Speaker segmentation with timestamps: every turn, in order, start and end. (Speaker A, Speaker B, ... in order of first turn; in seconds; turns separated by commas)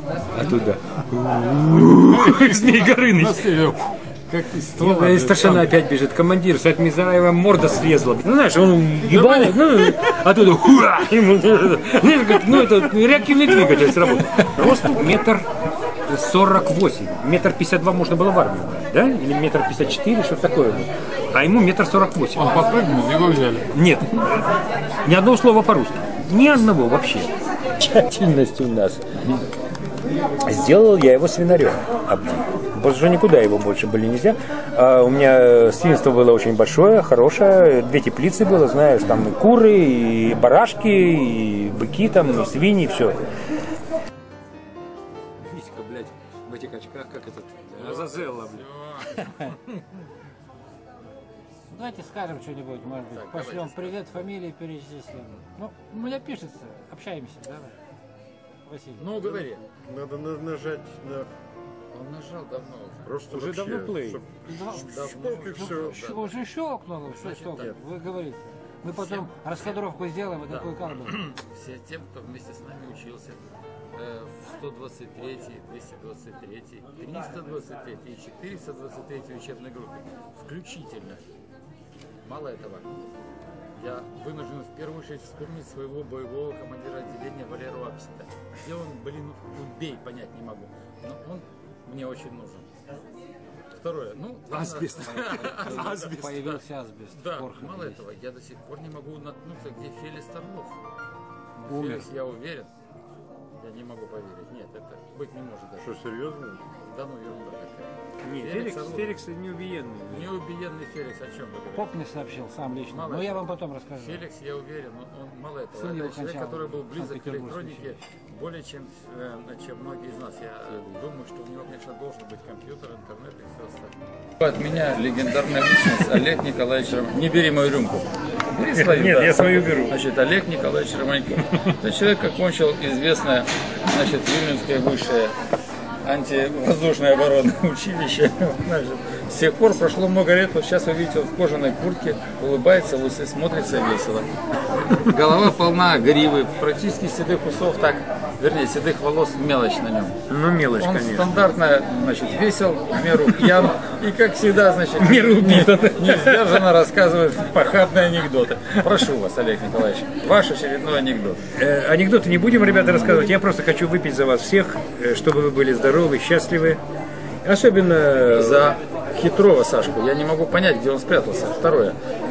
Speaker A: 0.3-3.5, Speaker B: 2.1-5.7, Speaker A: 4.8-15.5, Speaker B: 9.1-10.0, Speaker A: 16.1-22.6, Speaker B: 22.4-23.7, Speaker A: 23.7-24.5, Speaker A: 25.0-29.2, Speaker A: 30.4-43.2, Speaker A: 45.4-48.6, Speaker B: 47.8-49.8, Speaker C: 51.7-57.8, Speaker B: 53.1-54.3, Speaker C: 58.7-59.1, Speaker B: 59.0-59.6, Speaker D: 59.2-61.3, Speaker B: 61.9-63.1, Speaker D: 63.0-66.0, Speaker A: 63.3-64.2, Speaker C: 64.5-71.2, Speaker B: 64.7-66.4, Speaker B: 67.2-67.8, Speaker B: 68.9-69.8, Speaker B: 70.5-81.3, Speaker B: 82.2-82.9, Speaker B: 83.8-92.7, Speaker B: 93.7-100.8, Speaker A: 94.5-96.2, Speaker C: 95.3-98.0, Speaker B: 101.6-102.7, Speaker C: 101.7-102.0, Speaker B: 103.6-105.9, Speaker D: 105.8-106.7, Speaker B: 106.8-109.2, Speaker A: 108.2-110.3, Speaker B: 110.1-111.9, Speaker C: 111.7-114.2, Speaker B: 112.9-135.4, Speaker C: 115.8-118.0, Speaker A: 128.5-130.0, Speaker B: 136.0-144.3, Speaker B: 144.9-150.2, Speaker A: 150.3-151.3, Speaker B: 150.8-161.4, Speaker A: 155.0-156.6, Speaker A: 161.6-166.8, Speaker A: 167.4-168.8, Speaker B: 168.3-172.0